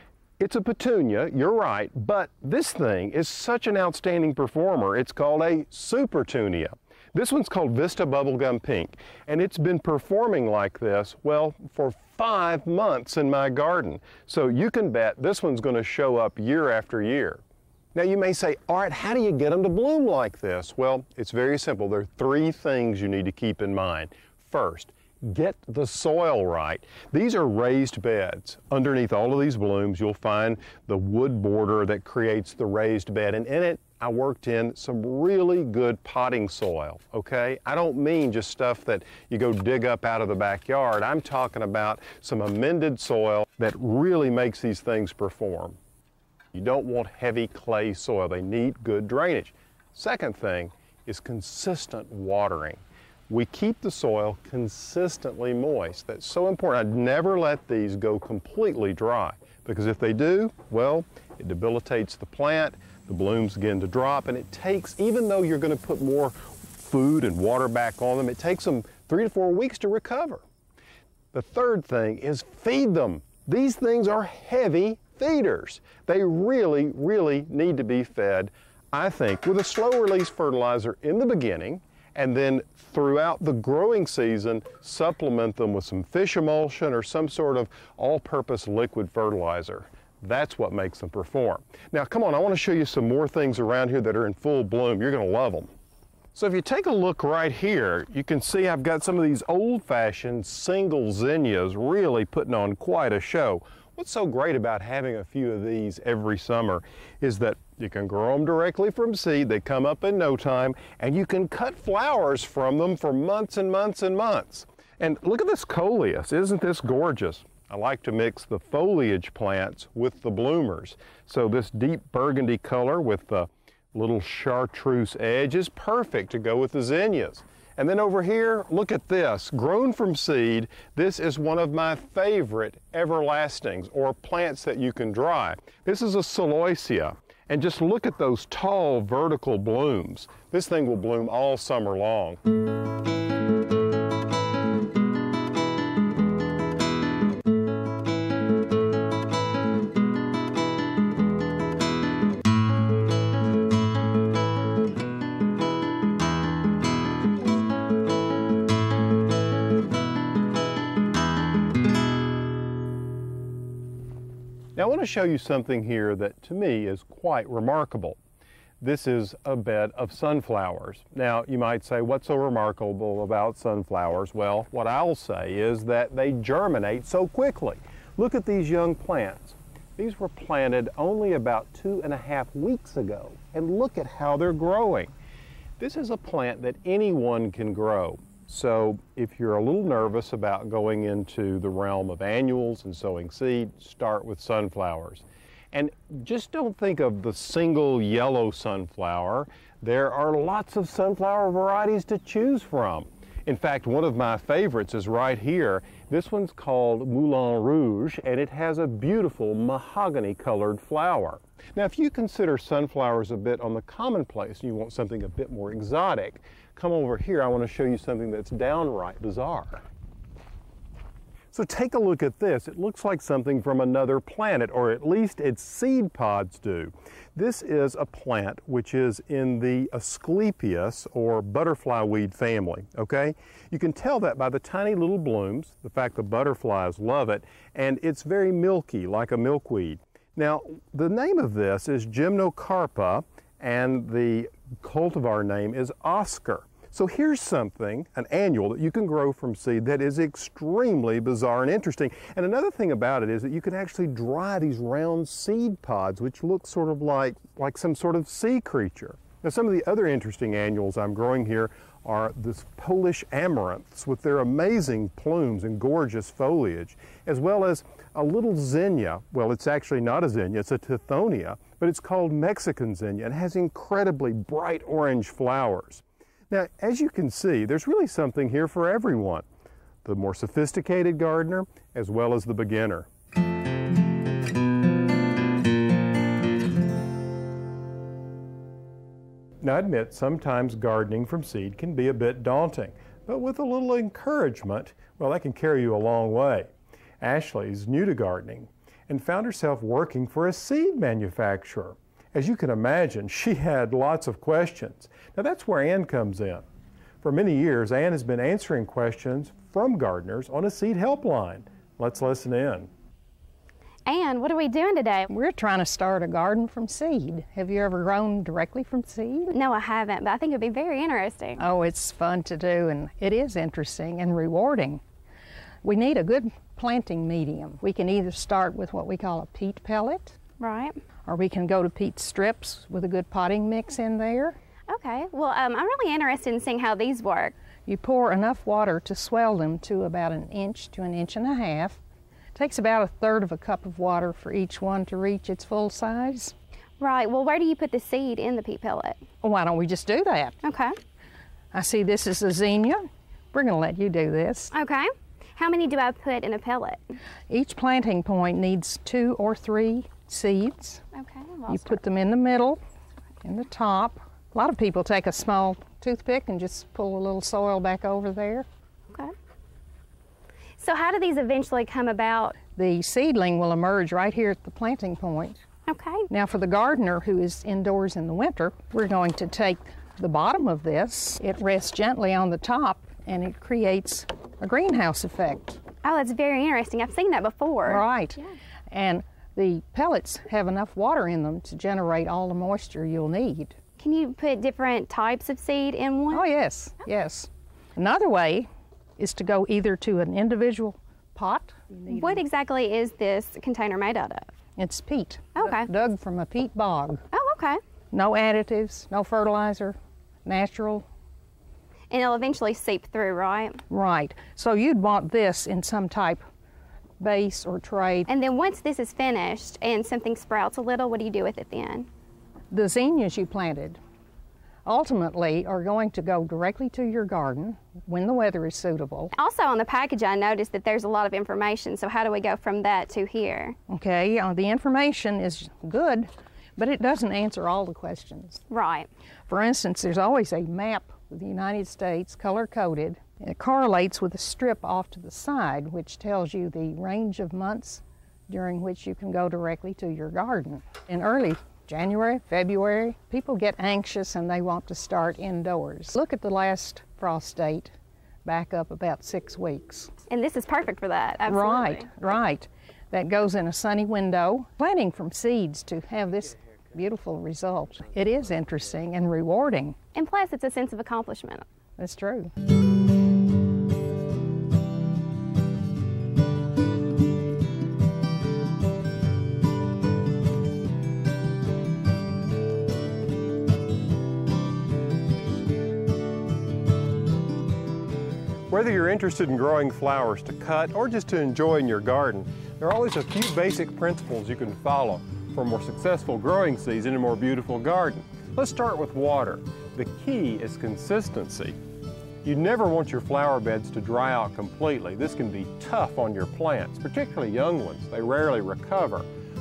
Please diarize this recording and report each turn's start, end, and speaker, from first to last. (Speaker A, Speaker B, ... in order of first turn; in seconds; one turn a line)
Speaker A: 0.4-17.4
Speaker A: 17.9-45.8
Speaker A: 46.5-70.4
Speaker A: 71.3-95.7
Speaker A: 96.3-142.4
Speaker A: 164.8-168.2
Speaker A: 168.8-185.1
Speaker A: 185.8-219.8
Speaker A: 221.5-279.4
Speaker A: 280.0-283.1
Speaker A: 289.6-306.6
Speaker A: 307.2-312.9
Speaker B: 314.1-315.3
Speaker C: 315.3-319.5
Speaker B: 319.5-321.6
Speaker C: 321.6-325.0
Speaker C: 325.8-330.4
Speaker B: 330.6-331.0
Speaker C: 331.2-334.6
Speaker B: 334.9-337.6
Speaker C: 337.9-342.0
Speaker C: 342.6-346.5
Speaker B: 347.0-349.2
Speaker C: 349.4-350.6
Speaker B: 350.6-350.9
Speaker C: 351.7-354.7
Speaker B: 354.7-357.2
Speaker C: 357.5-361.0
Speaker B: 361.1-362.0
Speaker C: 361.7-362.8
Speaker C: 363.4-368.7
Speaker B: 370.8-372.5
Speaker C: 372.8-375.6
Speaker B: 375.9-376.3
Speaker C: 376.3-385.8
Speaker B: 386.0-388.0
Speaker C: 387.8-393.8
Speaker B: 394.0-396.5
Speaker C: 396.3-402.4
Speaker B: 402.1-404.5
Speaker C: 404.8-407.2
Speaker B: 405.6-405.9
Speaker B: 407.3-407.8
Speaker C: 408.1-411.1
Speaker B: 412.1-413.8
Speaker C: 413.9-416.4
Speaker C: 417.2-418.3
Speaker B: 418.3-422.1
Speaker C: 422.7-424.0
Speaker C: 424.9-429.3
Speaker B: 429.3-433.8
Speaker C: 433.9-438.6
Speaker B: 438.7-439.1
Speaker C: 439.5-457.9
Speaker C: 458.4-460.1
Speaker B: 460.3-462.1
Speaker C: 461.4-470.0
Speaker B: 470.1-471.7
Speaker C: 472.0-472.5
Speaker A: 488.7-501.8
Speaker A: 502.4-509.3